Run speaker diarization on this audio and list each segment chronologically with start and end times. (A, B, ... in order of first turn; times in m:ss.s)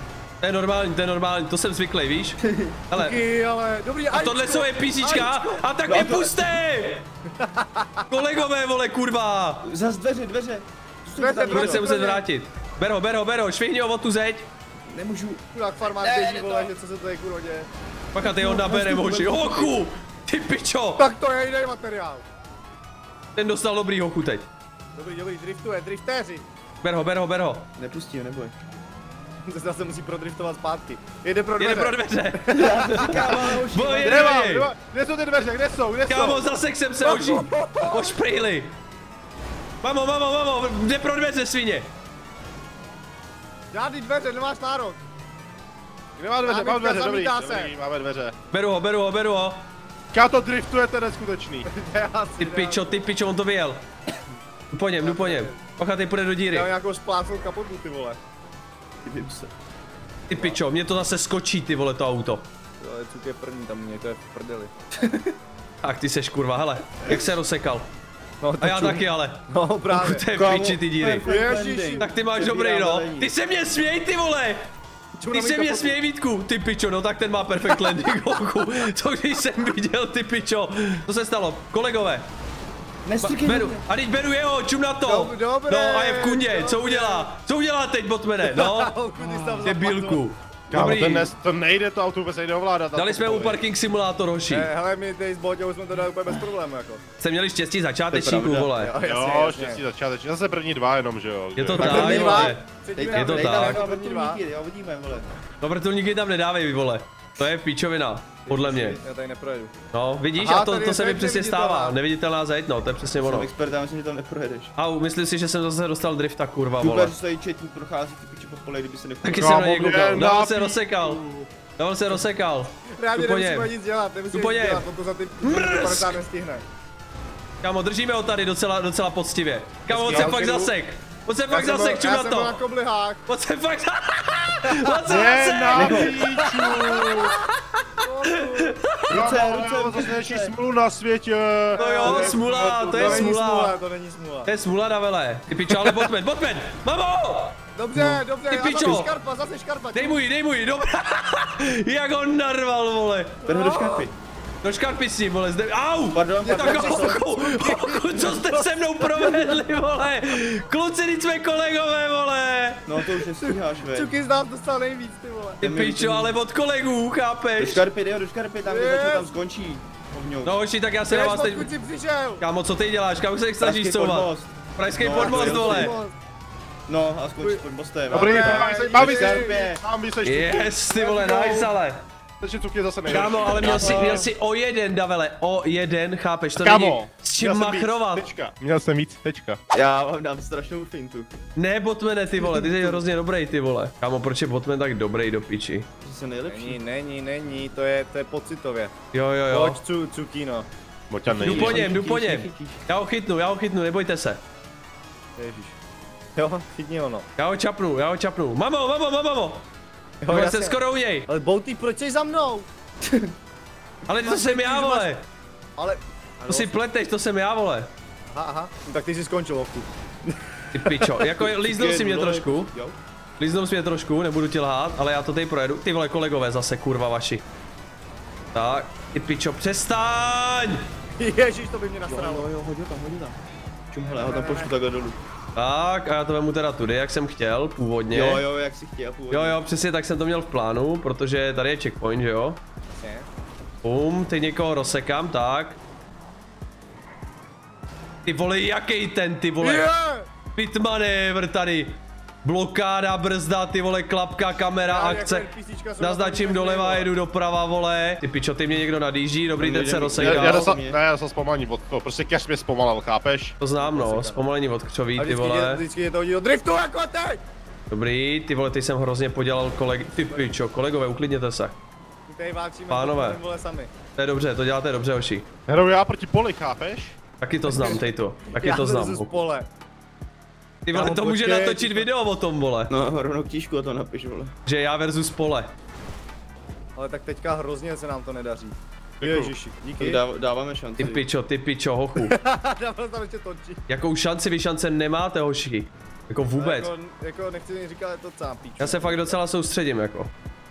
0:00.4-0:03.2 A
0:02.4-0:02.8 B
0:02.9-0:05.6 C
0:04.1-0:07.0 A
0:05.8-0:06.5 B
0:07.4-0:08.0 C
0:08.1-0:09.6 A
0:09.6-0:11.9 B
0:11.2-0:12.2 C
0:11.5-0:14.5 A
0:14.8-0:16.7 B
0:15.5-0:17.7 C
0:18.1-0:21.0 A
0:18.2-0:19.8 B
0:21.0-0:22.2 C
0:23.4-0:24.5 A
0:25.0-0:26.4 C
0:26.8-0:27.7 A
0:27.8-0:28.6 B
0:29.5-0:33.1 C
0:31.6-0:34.7 A
0:32.5-0:34.3 B
0:34.0-0:36.5 D
0:36.1-0:38.7 A
0:37.0-0:38.2 C
0:39.8-0:41.9 A
0:43.7-0:45.0 C
0:46.2-0:48.3 D
0:46.4-0:47.7 C
0:48.5-0:49.6 A
0:50.1-0:51.7 D
0:51.7-0:53.0 C
0:52.4-0:53.8 A
0:54.7-0:56.7 A
0:55.0-0:55.5 C
0:56.5-0:58.2 C
0:59.0-0:59.5 B
1:00.3-1:02.4 A
1:02.8-1:04.7 C
1:04.9-1:05.3 B
1:05.8-1:07.9 A
1:07.0-1:07.4 B
1:08.4-1:10.2 C
1:08.6-1:11.2 A
1:10.3-1:13.3 B
1:11.2-1:12.0 C
1:12.0-1:14.6 A
1:15.2-1:16.0 C
1:15.3-1:22.2 A
1:23.0-1:23.8 B
1:23.2-1:28.9 A
1:25.0-1:27.3 C
1:28.4-1:30.2 C
1:29.2-1:29.5 D
1:29.6-1:31.3 A
1:30.7-1:33.6 D
1:32.9-1:34.7 A
1:34.5-1:37.0 C
1:37.2-1:38.9 A
1:38.1-1:38.9 B
1:38.8-1:39.8 C
1:39.0-1:42.4 D
1:41.6-1:43.8 A
1:41.8-1:45.3 B
1:41.8-1:44.4 C
1:45.6-1:49.0 A
1:48.4-1:49.7 C
1:49.9-1:53.5 A
1:50.4-1:52.0 C
1:53.2-1:54.7 B
1:54.8-1:57.1 A
1:56.8-2:00.0 B
1:59.2-2:01.2 A
1:59.4-2:01.5 D
2:01.8-2:03.7 A
2:02.9-2:06.6 C
2:04.3-2:04.8 A
2:05.4-2:06.2 A
2:07.6-2:12.6 A
2:09.9-2:10.7 C
2:10.0-2:10.4 D
2:11.5-2:13.2 C
2:13.3-2:16.4 A
2:14.6-2:15.0 C
2:15.0-2:17.4 D
2:15.7-2:16.2 B
2:16.7-2:18.8 C
2:18.4-2:19.2 A
2:19.1-2:20.5 B
2:19.1-2:23.3 D
2:21.7-2:24.5 C
2:21.8-2:23.8 A
2:24.4-2:29.1 A
2:27.8-2:30.2 C
2:29.9-2:33.4 A
2:33.4-2:34.1 B
2:33.4-2:34.0 C
2:34.6-2:42.8 A
2:36.1-2:37.2 B
2:36.4-2:39.6 C
2:42.9-2:44.1 B
2:43.4-2:45.6 C
2:45.6-2:46.3 B
2:45.6-2:47.8 A
2:47.6-2:50.6 B
2:48.7-2:49.3 C
2:50.4-2:51.7 A
2:51.1-2:52.4 C
2:52.4-2:56.0 A
2:53.6-2:56.0 B
2:55.1-2:56.1 C
2:56.9-2:59.8 B
2:58.1-2:59.6 C
2:58.1-3:01.7 D
3:00.2-3:02.0 A
3:02.4-3:04.2 D
3:03.1-3:08.2 A
3:03.5-3:04.3 B
3:06.6-3:09.6 D
3:09.7-3:11.3 B
3:11.6-3:15.9 A
3:12.4-3:13.0 B
3:16.0-3:16.8 B
3:16.5-3:18.9 C
3:19.1-3:19.8 A
3:19.5-3:20.7 C
3:21.1-3:21.8 D
3:21.3-3:22.8 B
3:21.4-3:24.4 A
3:25.4-3:25.8 C
3:26.4-3:27.2 C
3:27.4-3:29.6 A
3:30.2-3:32.7 C
3:30.3-3:31.3 A
3:33.0-3:33.3 B
3:34.0-3:35.2 A
3:34.2-3:35.1 C
3:35.8-3:36.7 C
3:36.5-3:37.9 A
3:38.3-3:41.1 C
3:40.7-3:42.7 A
3:41.4-3:43.0 B
3:43.4-3:47.4 A
3:48.5-3:50.8 A
3:51.2-3:52.5 C
3:52.0-3:53.4 B
3:53.9-3:55.2 B
3:54.0-3:54.7 C
3:55.6-3:58.4 A
3:58.1-3:59.6 B
3:59.3-4:02.6 A
4:03.0-4:03.3 C
4:03.8-4:05.8 A
4:08.2-4:09.9 A
4:09.6-4:10.3 C
4:10.5-4:15.5 A
4:14.8-4:17.1 C
4:16.0-4:20.7 A
4:19.6-4:21.0 B
4:20.2-4:23.6 D
4:23.6-4:25.8 A
4:23.8-4:24.4 C
4:25.2-4:27.4 C
4:27.9-4:31.7 A
4:32.3-4:33.9 C
4:32.9-4:33.4 A
4:34.2-4:35.4 A
4:35.7-4:37.2 D
4:37.4-4:39.3 A
4:37.7-4:38.0 C
4:38.6-4:39.7 C
4:40.8-4:42.9 A
4:40.9-4:42.1 C
4:42.9-4:44.5 B
4:44.6-4:45.7 A
4:47.0-4:50.2 C
4:49.2-4:49.5 D
4:50.0-4:51.2 B
4:51.0-4:52.3 A
4:52.2-4:53.8 C
4:53.9-4:56.9 A
4:56.6-4:59.3 C
4:58.8-5:00.3 A